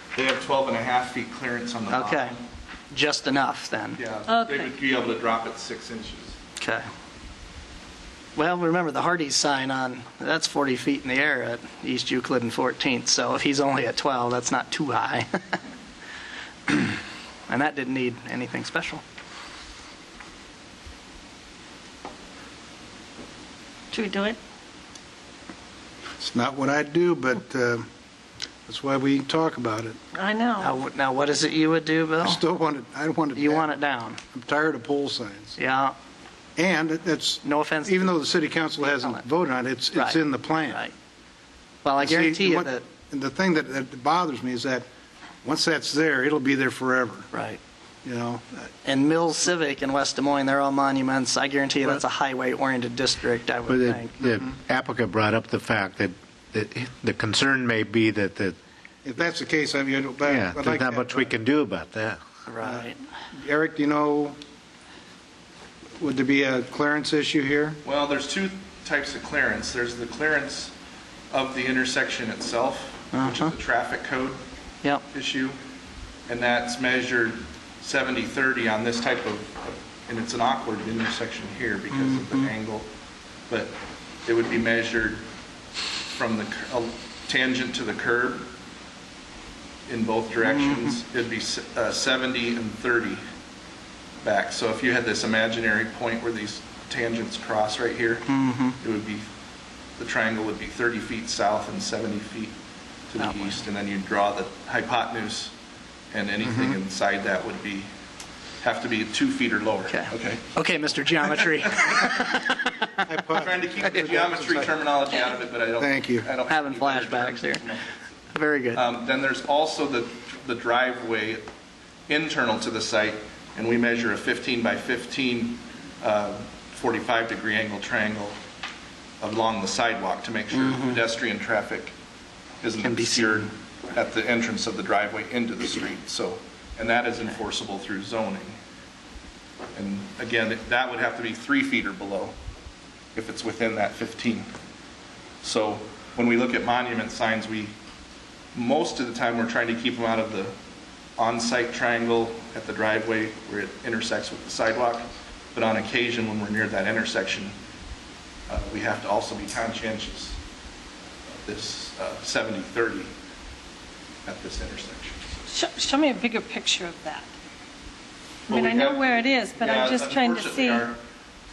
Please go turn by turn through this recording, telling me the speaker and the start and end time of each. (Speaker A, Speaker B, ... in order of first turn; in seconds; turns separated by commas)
Speaker A: 0.1-2.4, Speaker B: 1.9-2.4, Speaker B: 2.9-4.0, Speaker A: 4.0-6.4, Speaker C: 4.3-4.8, Speaker B: 6.6-6.8, Speaker B: 8.4-15.6, Speaker B: 16.7-17.0, Speaker B: 17.5-19.0, Speaker C: 23.9-24.4, Speaker D: 26.2-27.9, Speaker D: 28.7-30.0, Speaker C: 30.1-30.7, Speaker B: 30.6-32.4, Speaker D: 32.2-35.6, Speaker B: 33.4-34.2, Speaker B: 35.6-36.0, Speaker D: 36.6-40.8, Speaker B: 37.4-38.2, Speaker B: 38.8-39.2, Speaker B: 39.9-40.9, Speaker B: 41.8-42.8, Speaker D: 42.0-44.9, Speaker D: 45.4-47.3, Speaker B: 47.3-47.6, Speaker D: 48.0-48.7, Speaker B: 48.9-54.1, Speaker E: 53.7-58.6, Speaker D: 59.0-61.3, Speaker E: 60.2-62.2, Speaker B: 62.5-63.0, Speaker D: 62.6-64.4, Speaker D: 66.0-67.8, Speaker A: 67.8-70.7, Speaker A: 71.3-74.4, Speaker B: 73.1-73.5, Speaker A: 75.1-75.6, Speaker A: 76.3-82.9, Speaker B: 81.9-82.5, Speaker A: 83.5-85.2, Speaker A: 86.1-88.5, Speaker A: 89.9-93.2, Speaker B: 90.4-91.0, Speaker A: 94.2-98.3, Speaker B: 98.3-98.8, Speaker A: 98.8-99.3, Speaker A: 100.0-102.6, Speaker A: 103.1-105.5, Speaker B: 103.2-103.5, Speaker A: 106.1-107.9, Speaker D: 106.4-106.8, Speaker A: 108.6-110.5, Speaker B: 109.9-112.8, Speaker D: 113.1-114.8, Speaker A: 113.3-117.9, Speaker D: 115.8-116.3, Speaker B: 116.5-117.6, Speaker B: 118.3-118.8, Speaker A: 118.8-121.4, Speaker A: 122.1-128.4, Speaker A: 129.2-131.9, Speaker B: 130.5-131.0, Speaker A: 132.6-138.6, Speaker B: 132.8-133.5, Speaker A: 139.8-142.3, Speaker A: 143.2-144.5, Speaker A: 145.4-147.7, Speaker A: 148.5-150.5, Speaker A: 151.2-157.5, Speaker A: 158.5-160.4, Speaker A: 161.3-163.1, Speaker A: 164.3-165.3, Speaker C: 165.5-167.3, Speaker C: 168.5-170.9, Speaker A: 168.5-171.0